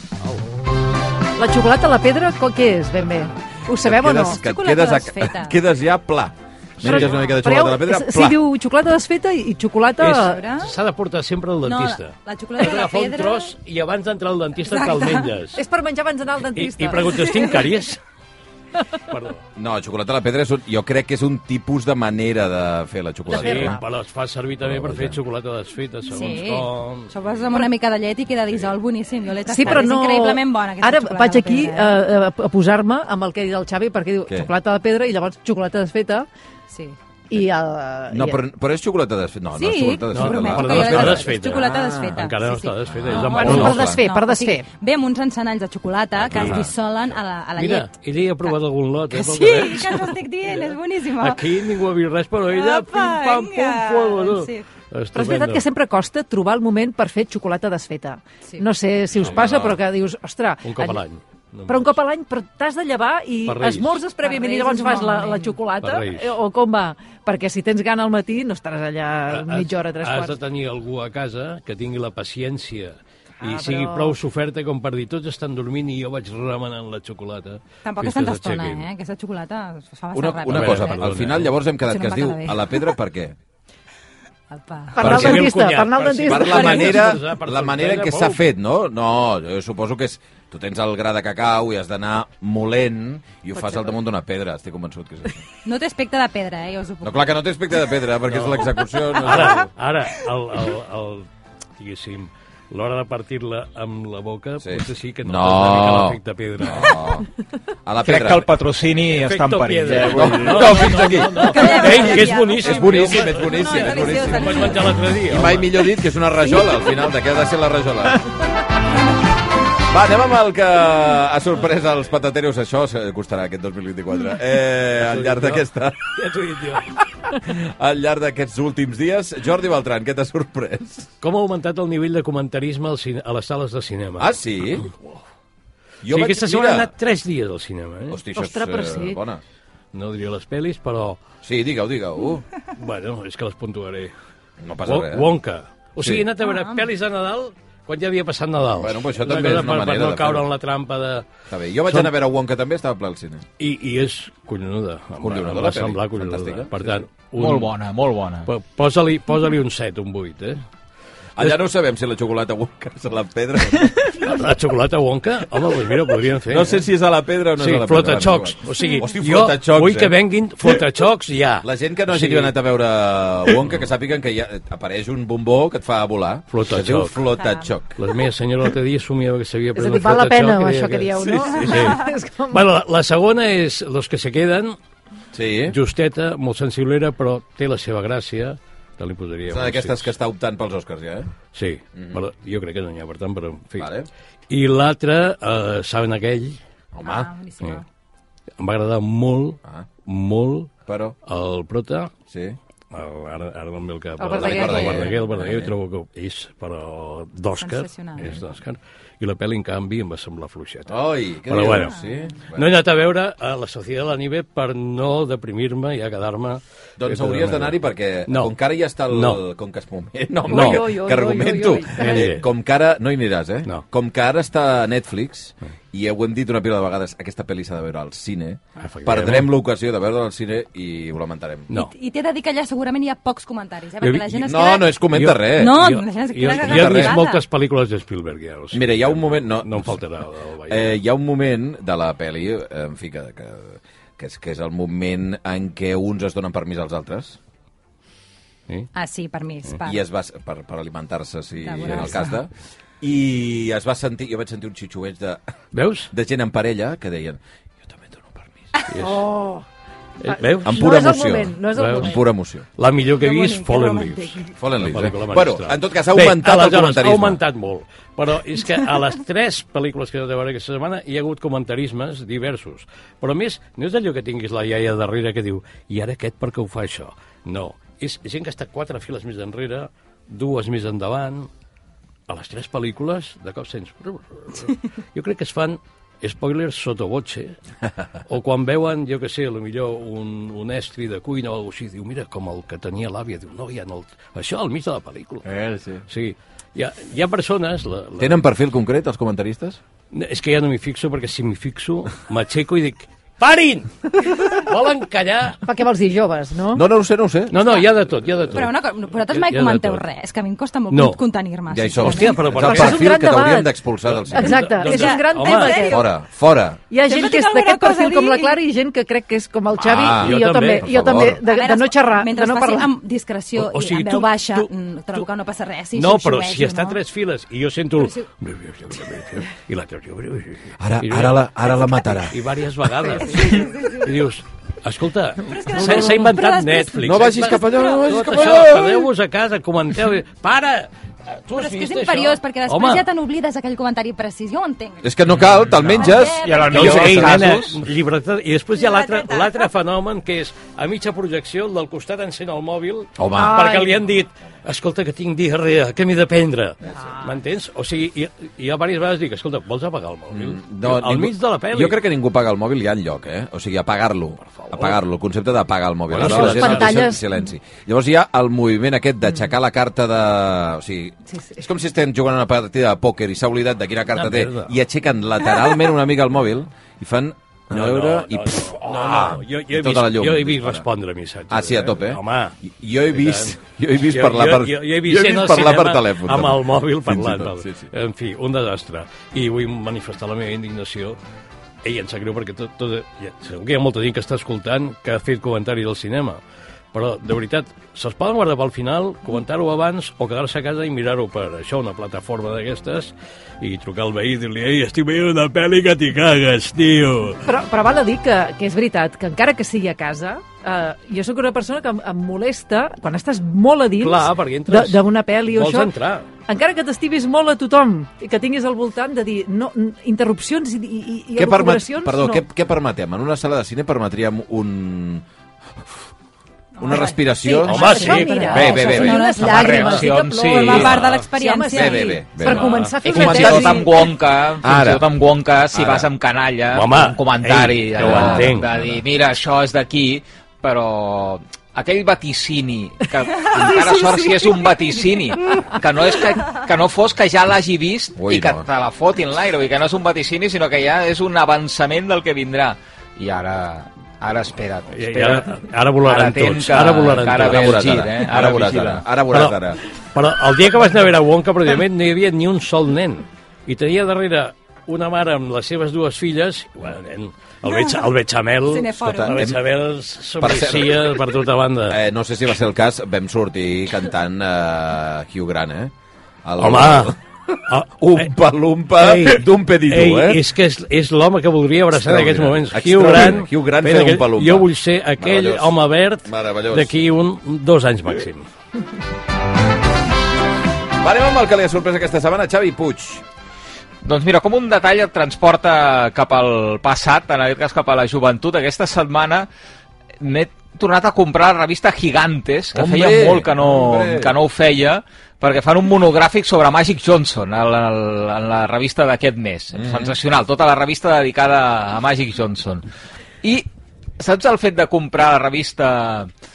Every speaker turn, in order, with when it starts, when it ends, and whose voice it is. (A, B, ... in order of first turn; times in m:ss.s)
0:01.4-0:04.4 A
0:03.7-0:08.4 B
0:04.3-0:05.6 C
0:06.8-0:10.4 A
0:10.0-0:15.6 D
0:10.1-0:10.7 C
0:11.6-0:13.5 C
0:14.7-0:15.3 C
0:15.5-0:17.6 A
0:16.6-0:18.0 D
0:19.1-0:19.4 D
0:19.6-0:23.8 B
0:23.3-0:23.8 A
0:23.3-0:27.1 D
0:24.6-0:25.2 B
0:26.1-0:32.0 C
0:29.4-0:36.3 A
0:36.7-0:37.0 C
0:37.3-0:38.4 A
0:38.1-0:42.2 B
0:39.5-0:48.5 C
0:40.1-0:43.9 D
0:42.9-0:44.0 B
0:43.4-0:44.6 A
0:46.3-0:46.7 D
0:46.3-0:46.7 B
0:47.6-0:50.6 D
0:49.1-0:51.4 C
0:51.2-0:55.6 D
0:52.5-0:54.7 C
0:55.1-1:01.0 A
0:59.2-0:59.6 D
0:59.3-0:59.8 B
1:00.6-1:02.0 D
1:01.7-1:10.4 A
1:03.4-1:04.0 D
1:04.2-1:05.6 C
1:05.8-1:06.4 D
1:09.3-1:18.9 D
1:13.4-1:14.2 A
1:17.8-1:21.3 C
1:20.1-1:23.4 B
1:20.5-1:21.5 D
1:21.8-1:22.8 C
1:24.5-1:25.0 C
1:24.9-1:27.1 A
1:25.0-1:25.5 B
1:25.0-1:28.4 D
1:26.2-1:35.4 B
1:33.5-1:33.9 A
1:35.6-1:37.3 C
1:37.0-1:39.7 B
1:38.3-1:47.0 D
1:44.6-1:47.3 B
1:47.8-1:48.5 B
1:48.0-1:51.2 E
1:49.1-1:55.7 D
1:49.9-1:54.7 B
1:51.3-1:54.9 C
1:55.3-1:58.2 B
1:59.9-2:06.1 B
2:05.0-2:07.0 D
2:07.3-2:11.1 B
2:11.2-2:14.3 D
2:14.2-2:14.9 B
2:14.9-2:15.2 D
2:16.0-2:16.9 B
2:16.0-2:18.2 D
2:18.1-2:19.4 B
2:18.3-2:19.2 A
2:19.9-2:21.2 D
2:21.4-2:22.4 B
2:22.7-2:24.1 D
2:24.6-2:25.3 B
2:24.8-2:31.3 D
2:26.4-2:26.9 C
2:28.8-2:30.5 B
2:31.5-2:33.4 B
2:31.9-2:32.1 D
2:33.6-2:37.7 D
2:35.2-2:37.1 B
2:37.4-2:38.5 E
2:38.5-2:40.6 D
2:41.4-2:44.1 B
2:44.2-2:46.8 D
2:46.5-2:50.2 B
2:47.6-2:52.5 D
2:51.6-2:58.0 B
2:56.5-2:57.2 D
2:57.4-2:57.7 C
2:58.0-3:04.8 D
2:59.7-3:02.6 A
3:01.2-3:01.8 B
3:05.3-3:05.8 B
3:05.7-3:10.1 D
3:09.5-3:11.3 B
3:11.5-3:13.9 D
3:11.9-3:12.2 B
3:13.8-3:14.1 B
3:14.5-3:16.6 D
3:16.9-3:17.3 B
3:17.0-3:17.8 C
3:18.6-3:20.7 D
3:20.9-3:21.2 B
3:21.2-3:22.1 D
3:22.3-3:22.6 B
3:22.9-3:32.0 D
3:24.2-3:25.1 A
3:24.4-3:25.7 B
3:24.7-3:25.1 C
3:27.6-3:28.3 C
3:30.9-3:32.7 B
3:32.5-3:37.8 D
3:37.0-3:51.7 B
3:38.3-3:38.5 D
3:39.1-3:39.4 D
3:40.5-3:42.3 A
3:40.5-3:40.9 D
3:42.0-3:42.4 D
3:48.8-3:49.5 D
3:51.7-3:54.9 C
3:54.0-3:54.4 D
3:54.4-3:55.8 B
3:55.1-4:01.0 D
3:55.5-3:57.4 C
3:56.4-3:57.2 B
3:58.7-4:00.0 B
4:00.7-4:07.4 B
4:08.9-4:10.0 C
4:09.8-4:12.5 B
4:11.6-4:12.4 C
4:13.0-4:15.5 B
4:15.7-4:16.1 D
4:16.1-4:18.5 B
4:18.9-4:19.2 D
4:19.0-4:19.6 A
4:20.2-4:21.1 D
4:20.3-4:22.2 A
4:20.6-4:22.7 B
4:21.7-4:22.2 D
4:22.7-4:41.5 D
4:23.2-4:24.4 A
4:24.6-4:27.4 B
4:42.3-4:47.6 D
4:48.3-4:55.4 D
4:55.4-4:56.0 B
4:56.1-4:58.4 D
4:58.2-4:59.8 B
5:00.1-5:05.6 D
5:05.6-5:06.8 A
5:06.7-5:07.8 B
5:07.5-5:10.0 D
5:08.5-5:12.5 C
5:10.9-5:11.2 D
5:11.7-5:14.8 B
5:12.0-5:13.2 D
5:12.6-5:13.7 A
5:14.1-5:15.9 D
5:14.3-5:16.1 A
5:14.9-5:16.0 C
5:15.9-5:16.8 B
5:16.9-5:22.9 A
5:17.0-5:18.6 C
5:19.8-5:21.4 B
5:20.0-5:21.2 D
5:21.4-5:27.0 C
5:23.5-5:25.3 D
5:25.9-5:31.4 D
5:28.0-5:28.3 C
5:30.8-5:32.4 B
5:32.1-5:43.1 D
5:33.2-5:34.1 C
5:35.4-5:38.0 C
5:37.0-5:39.1 B
5:41.5-5:45.1 C
5:45.0-5:47.2 B
5:46.0-5:47.4 C
5:46.4-5:47.8 E
5:46.6-6:02.0 D
5:48.7-5:49.6 C
5:53.2-5:53.7 B
5:53.4-5:53.9 A
6:00.3-6:20.8 B
6:06.1-6:06.9 D
6:06.2-6:07.2 A
6:14.1-6:14.7 D
6:17.7-6:22.5 D
6:21.5-6:27.8 B
6:23.1-6:23.5 D
6:24.1-6:31.2 D
6:31.8-6:36.4 D
6:36.9-6:47.4 D
6:47.4-6:55.9 A
6:54.0-6:56.2 D
6:56.5-7:02.4 A
7:01.4-7:05.2 B
7:06.8-7:12.2 C
7:06.8-7:09.2 B
7:07.7-7:08.5 D
7:07.7-7:13.9 A
7:09.4-7:11.1 E
7:11.7-7:14.0 B
7:12.5-7:12.9 D
7:13.0-7:39.0 E
7:14.6-7:15.0 B
7:15.7-7:16.1 B
7:16.7-7:18.6 D
7:18.0-7:19.0 B
7:23.4-7:24.5 A
7:28.2-7:28.6 B
7:34.9-7:38.1 D
7:37.3-7:39.8 B
7:39.3-7:39.6 D
7:40.1-7:52.0 D
7:48.6-7:49.4 C
7:49.0-7:49.6 B
7:50.4-7:51.2 B
7:51.9-7:55.9 B
7:56.4-8:00.4 B
7:56.6-7:57.1 D
7:57.7-7:58.3 D
7:58.9-8:08.5 D
8:01.9-8:07.1 B
8:11.0-8:13.2 B
8:14.0-8:19.5 E
8:20.2-8:32.8 E
8:22.7-8:24.4 B
8:29.7-8:30.1 B
8:34.2-8:36.3 E